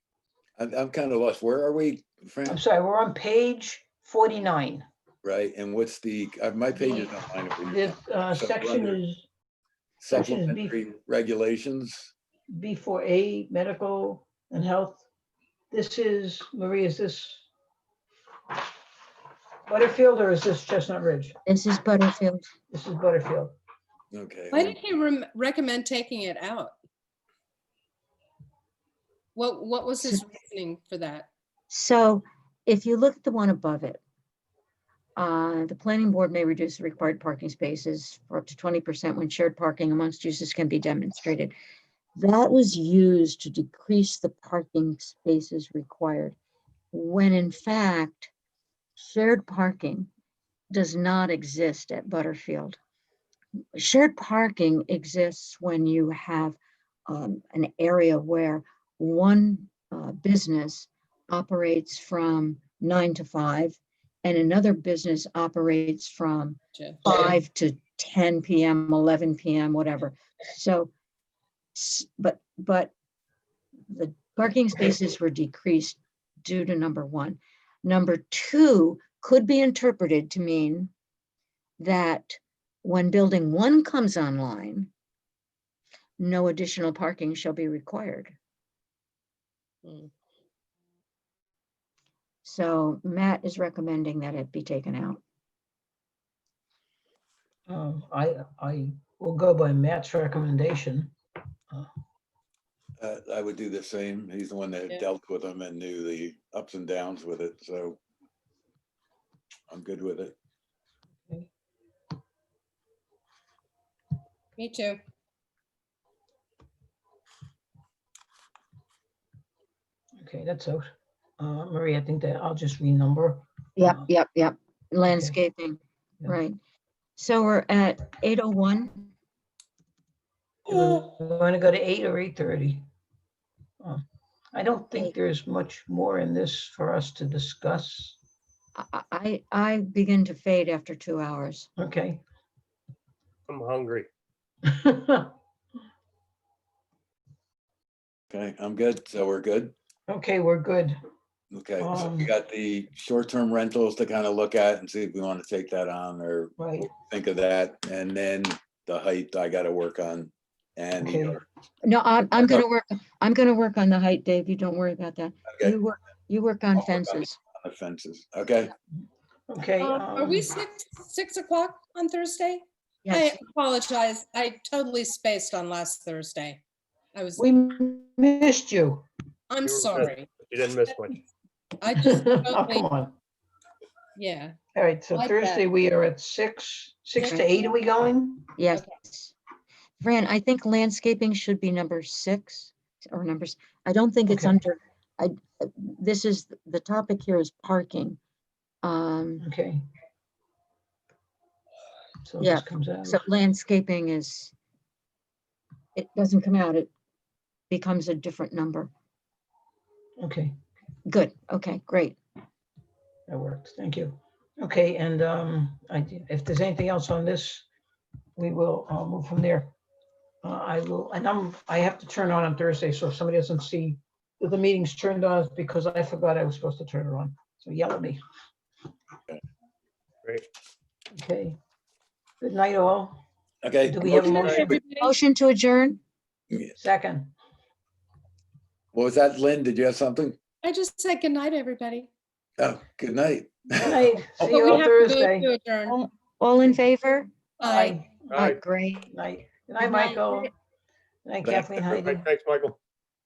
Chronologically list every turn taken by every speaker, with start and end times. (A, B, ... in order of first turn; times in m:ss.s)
0:00.6-0:02.6 A
0:02.5-0:04.8 B
0:05.2-0:09.0 A
0:07.6-0:09.2 B
0:10.0-0:12.1 A
0:10.1-0:10.8 B
0:12.5-0:15.0 B
0:15.7-0:17.5 B
0:19.7-0:21.4 B
0:21.4-0:22.5 C
0:22.7-0:23.6 B
0:24.1-0:24.8 A
0:24.5-0:26.7 D
0:29.3-0:31.3 D
0:31.7-0:34.0 C
0:35.2-0:41.5 C
0:42.1-0:46.4 C
0:46.9-0:48.3 C
0:49.0-0:50.1 C
0:50.7-0:52.8 C
0:53.7-1:10.9 C
1:06.8-1:07.3 D
1:11.7-1:12.9 C
1:13.9-1:20.9 C
1:21.8-1:24.9 C
1:26.2-1:28.3 C
1:29.8-1:30.1 D
1:32.4-1:35.2 C
1:37.7-1:41.1 B
1:43.0-1:48.0 A
1:49.7-1:50.3 A
1:54.6-1:55.0 D
2:00.2-2:04.1 B
2:03.8-2:06.6 C
2:07.2-2:09.1 C
2:10.6-2:12.8 B
2:14.5-2:18.2 B
2:18.7-2:21.7 C
2:21.8-2:22.2 B
2:23.5-2:24.1 E
2:24.6-2:25.3 B
2:28.3-2:29.7 A
2:30.1-2:31.0 B
2:31.5-2:41.4 A
2:31.8-2:32.3 B
2:36.6-2:36.9 B
2:41.0-2:41.4 B
2:41.8-2:47.4 C
2:47.6-2:48.7 A
2:49.5-2:50.5 B
2:49.8-2:56.6 D
2:53.0-2:53.4 C
2:57.1-2:57.5 D
2:57.4-2:59.0 B
2:59.5-3:00.3 D
2:59.6-3:01.2 E
3:01.8-3:02.9 D
3:02.0-3:03.2 B
3:04.2-3:04.5 D
3:04.7-3:08.5 B
3:05.1-3:05.6 D
3:07.2-3:07.5 D
3:08.6-3:09.3 C
3:10.0-3:18.2 C
3:14.3-3:14.5 B
3:18.8-3:19.4 C
3:19.4-3:19.8 B
3:22.2-3:23.2 B
3:22.4-3:24.5 C
3:25.9-3:26.9 C
3:27.7-3:28.9 C
3:30.2-3:30.6 B
3:31.0-3:32.2 C
3:33.3-3:37.6 B
3:38.4-3:39.7 B
3:40.4-3:48.2 B
3:51.1-3:51.6 B
3:52.4-3:53.2 B
3:53.6-3:54.8 A
3:53.8-3:54.8 B
3:54.1-3:55.1 D
3:55.0-3:56.0 C
3:56.7-3:57.3 B
3:58.9-4:00.4 A
4:00.6-4:02.1 D
4:02.6-4:04.0 A
4:03.8-4:05.5 B
4:04.4-4:06.0 D
4:05.9-4:07.3 C
4:07.6-4:08.0 D
4:07.6-4:08.5 B
4:08.3-4:08.6 E
4:08.3-4:09.1 C
4:09.1-4:10.5 B
4:09.8-4:10.5 C
4:11.2-4:12.2 B
4:11.4-4:11.7 A
4:12.0-4:12.8 E